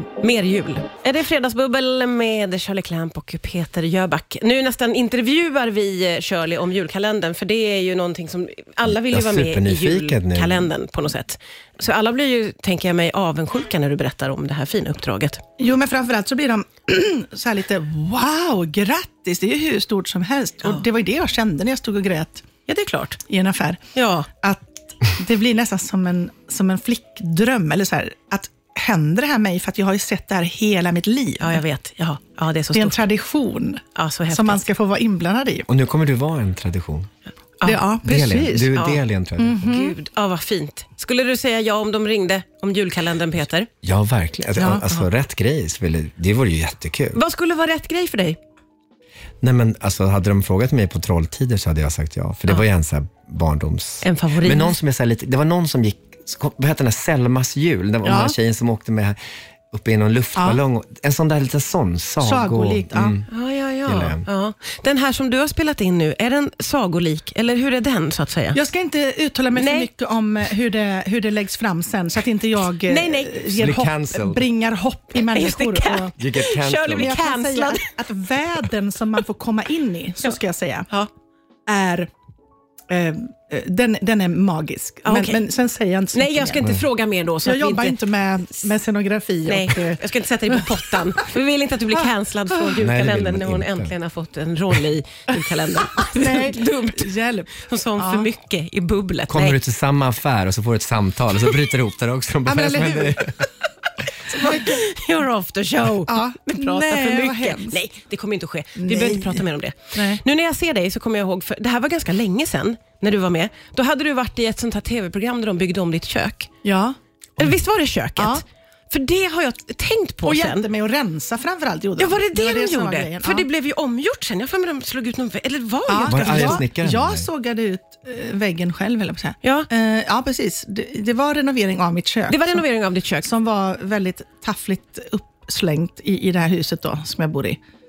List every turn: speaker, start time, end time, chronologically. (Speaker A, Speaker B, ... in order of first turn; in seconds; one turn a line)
Speaker A: 0.2-15.4
Speaker B: 8.8-10.7
Speaker C: 15.6-22.4
Speaker A: 22.7-23.2
Speaker C: 23.3-31.6
Speaker A: 23.9-24.3
Speaker A: 31.4-33.0
Speaker C: 32.7-35.7
Speaker A: 33.9-34.6
Speaker B: 35.7-37.1
Speaker C: 37.6-38.7
Speaker B: 38.0-39.7
Speaker A: 38.7-39.0
Speaker C: 39.4-40.0
Speaker A: 39.6-43.7
Speaker B: 43.8-47.2
Speaker C: 44.6-45.0
Speaker A: 47.1-48.4
Speaker B: 49.4-59.1
Speaker A: 54.0-54.8
Speaker C: 58.0-58.4
Speaker B: 59.7-63.3
Speaker C: 60.4-60.6
Speaker C: 62.2-63.2
Speaker A: 63.3-68.6
Speaker B: 63.8-64.2
Speaker C: 68.5-76.2
Speaker A: 69.5-69.9
Speaker A: 72.8-73.6
Speaker B: 73.5-74.5
Speaker A: 75.3-77.9
Speaker B: 76.2-77.2
Speaker C: 76.7-80.9
Speaker C: 81.7-82.1
Speaker C: 82.9-86.7
Speaker A: 85.0-85.4
Speaker A: 86.1-88.0
Speaker C: 87.4-91.0
Speaker A: 89.5-99.6
Speaker B: 92.8-93.9
Speaker C: 95.3-98.3
Speaker B: 99.3-103.4
Speaker C: 102.5-103.3
Speaker C: 104.3-104.8
Speaker A: 104.4-116.5
Speaker C: 106.0-107.8
Speaker C: 108.8-110.2
Speaker C: 116.6-117.0
Speaker A: 117.4-120.7
Speaker C: 118.2-118.4
Speaker C: 120.2-123.5
Speaker A: 122.0-126.6
Speaker C: 125.9-132.6
Speaker B: 126.1-127.3
Speaker A: 129.4-129.7
Speaker A: 132.3-133.3
Speaker C: 133.2-137.6